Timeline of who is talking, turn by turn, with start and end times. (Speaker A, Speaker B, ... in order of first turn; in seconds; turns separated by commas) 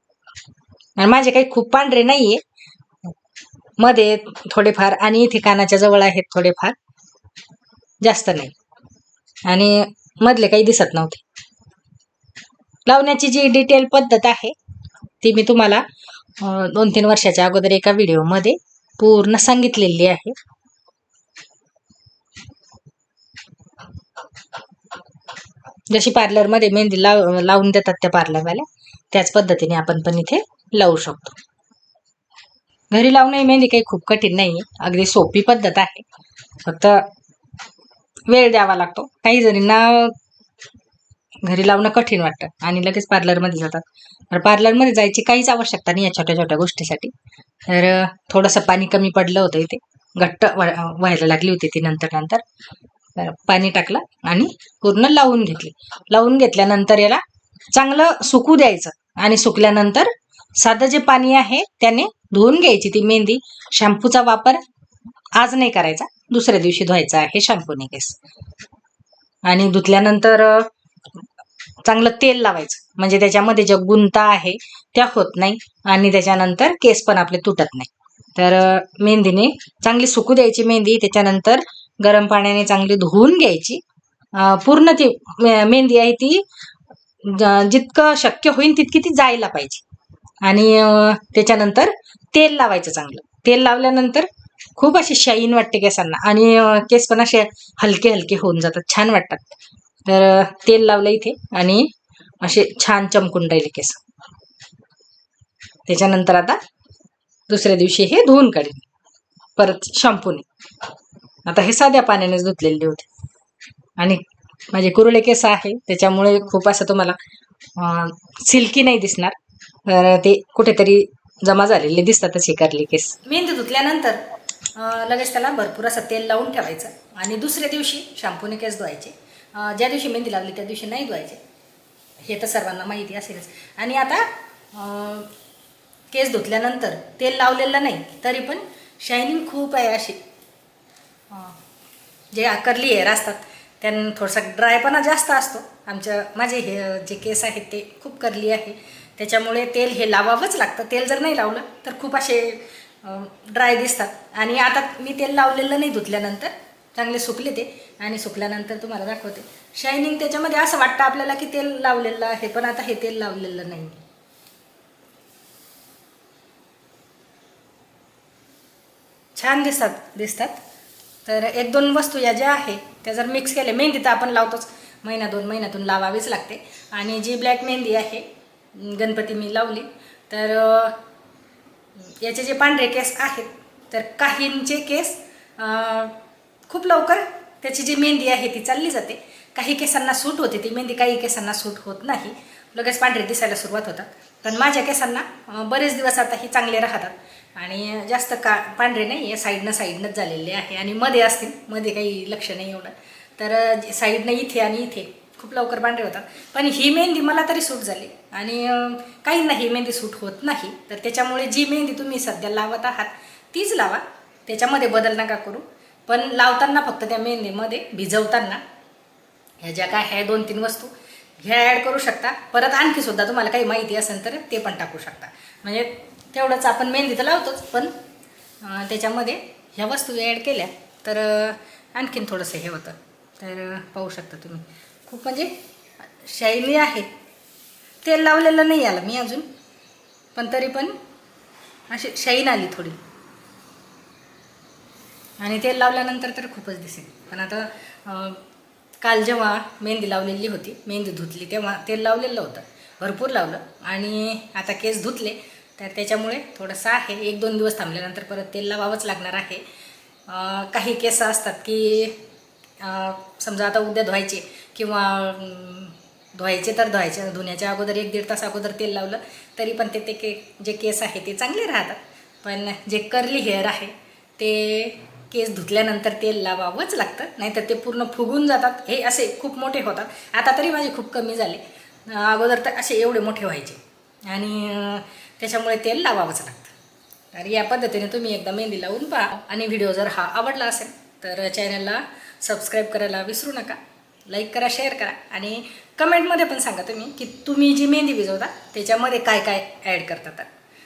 Speaker A: 1.0-2.4, Speaker A: 3.8-6.8, Speaker A: 8.0-8.5, Speaker A: 9.4-11.2, Speaker A: 12.9-14.6, Speaker A: 15.2-15.8, Speaker A: 16.4-20.4, Speaker A: 25.9-31.4, Speaker A: 32.9-36.0, Speaker A: 36.6-37.1, Speaker A: 38.3-40.2, Speaker A: 41.4-47.1, Speaker A: 47.7-52.4, Speaker A: 53.2-64.6, Speaker A: 65.4-68.2, Speaker A: 69.5-70.7, Speaker A: 71.8-83.8, Speaker A: 84.3-86.5, Speaker A: 87.2-89.8, Speaker A: 90.4-99.5, Speaker A: 100.1-104.0, Speaker A: 105.9-106.6, Speaker A: 107.5-108.8, Speaker A: 109.6-110.5, Speaker A: 111.5-113.1, Speaker A: 114.0-117.2, Speaker A: 117.8-124.2, Speaker A: 124.7-131.4, Speaker A: 132.2-135.3, Speaker A: 136.1-140.2, Speaker A: 141.3-141.6, Speaker A: 142.3-164.0, Speaker A: 169.4-170.6, Speaker A: 171.3-181.0, Speaker A: 182.0-186.2, Speaker A: 186.7-218.6, Speaker A: 219.6-228.0, Speaker A: 228.6-235.5, Speaker A: 236.2-237.1, Speaker A: 238.0-239.5, Speaker A: 240.3-240.9, Speaker A: 241.9-243.0, Speaker A: 245.4-248.4, Speaker A: 249.0-259.6, Speaker A: 260.3-262.2, Speaker A: 262.8-286.7, Speaker A: 287.3-300.5